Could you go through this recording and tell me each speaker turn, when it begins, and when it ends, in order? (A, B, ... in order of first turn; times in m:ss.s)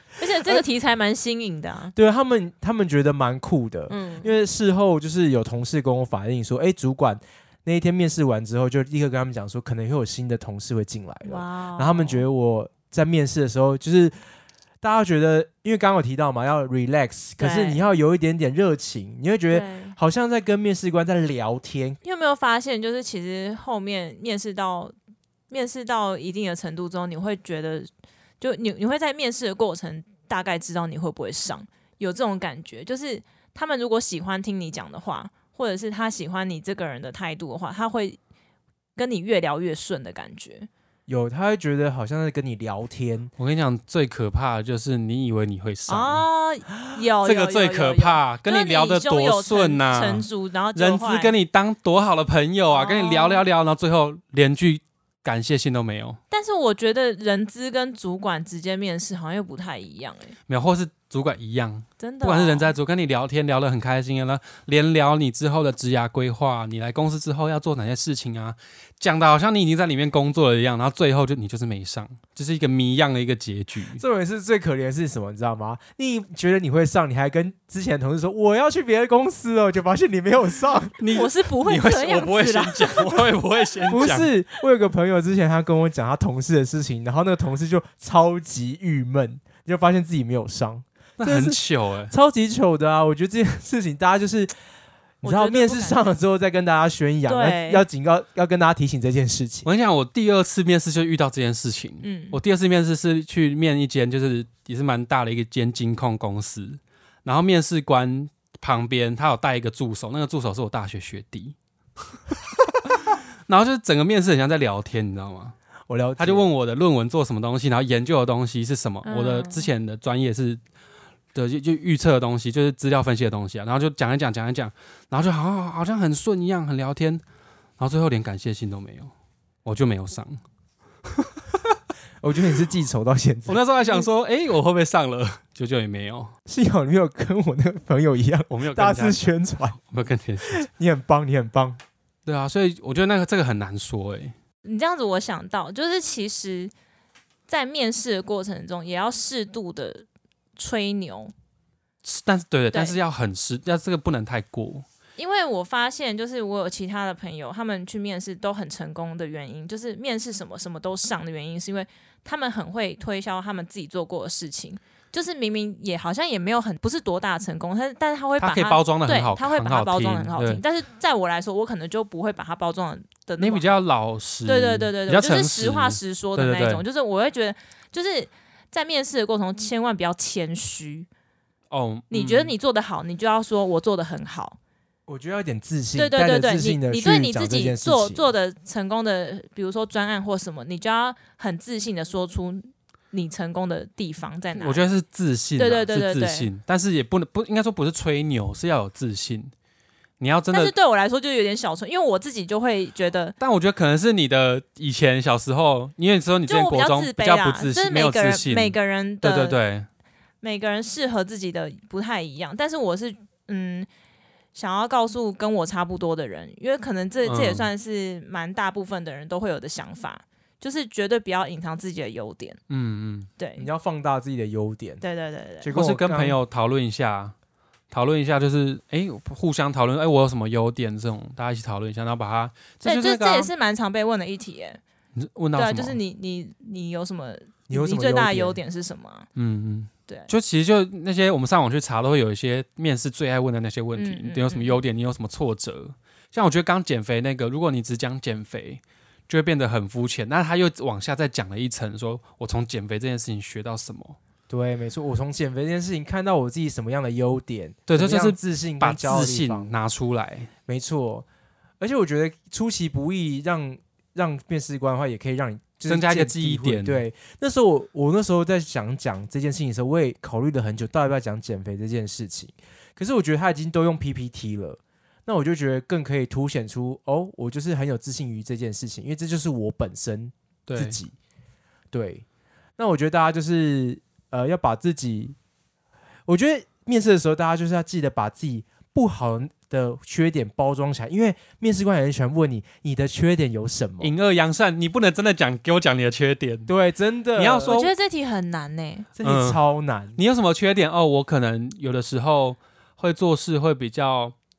0:00.2-0:01.9 A
0:01.9-0:14.2 B
0:03.9-0:04.3 A
0:11.2-0:12.2 A
0:14.8-0:22.0 B
0:17.4-0:17.8 A
0:19.5-0:20.0 A
0:22.0-0:24.9 A
0:25.5-0:27.9 A
0:28.4-0:38.2 A
0:39.0-0:40.7 A
0:41.1-0:43.3 B
0:43.4-0:46.2 C
0:45.9-0:51.3 A
0:47.2-0:56.2 C
0:52.7-0:53.4 A
0:56.3-1:00.3 A
1:00.5-1:14.0 C
1:02.0-1:02.7 A
1:14.0-1:21.0 B
1:21.0-1:24.3 C
1:21.1-1:23.2 A
1:23.9-1:31.6 B
1:31.2-1:32.1 C
1:32.1-1:34.5 B
1:35.2-1:39.7 B
1:35.2-1:36.1 A
1:37.2-1:37.8 A
1:39.6-1:51.6 C
1:42.0-1:42.4 A
1:52.9-1:55.5 C
1:55.9-1:56.5 B
1:56.2-2:00.6 C
1:59.0-1:59.7 A
2:01.3-2:07.2 C
2:07.8-2:09.1 C
2:09.6-2:10.4 C
2:12.2-2:13.6 B
2:13.5-2:16.3 C
2:16.5-2:19.8 B
2:18.5-2:19.2 C
2:19.8-2:20.7 C
2:20.4-2:21.8 B
2:22.2-2:24.3 C
2:24.6-2:26.7 A
2:27.5-2:30.0 A
2:30.6-2:31.3 A
2:32.0-2:34.8 C
2:32.7-2:33.0 A
2:35.2-2:53.8 A
2:48.4-2:50.6 C
2:53.4-2:56.8 C
2:54.4-3:01.1 A
3:01.7-3:02.5 C
3:02.1-3:04.6 A
3:05.1-3:08.3 B
3:06.0-3:14.8 A
3:14.5-3:19.5 C
3:15.6-3:16.5 A
3:20.2-3:20.7 C
3:20.5-3:23.3 A
3:23.4-3:29.9 C
3:26.4-3:29.6 A
3:30.4-3:33.9 A
3:34.5-3:42.6 A
3:37.2-3:37.7 C
3:42.7-3:43.3 C
3:43.4-3:43.7 A
3:43.6-3:45.0 B
3:45.0-3:45.7 A
3:45.6-3:46.4 B
3:45.7-3:47.3 C
3:47.9-3:53.5 C
3:52.8-3:54.8 A
3:55.2-3:56.0 C
3:55.5-3:59.3 A
3:57.7-3:58.6 B
3:59.4-4:14.2 C
4:04.0-4:04.8 A
4:14.5-4:19.7 B
4:17.9-4:20.5 C
4:20.7-4:21.2 B
4:21.8-4:41.1 B
4:25.8-4:27.0 C
4:40.7-4:41.0 C
4:41.9-4:42.2 B
4:42.8-4:45.4 B
4:46.3-4:54.1 B
4:54.0-4:56.7 C
4:56.7-4:57.8 B
4:57.4-4:57.9 C
4:57.6-4:59.1 A
4:59.2-5:00.2 B
4:59.2-4:59.6 C
5:00.2-5:04.3 C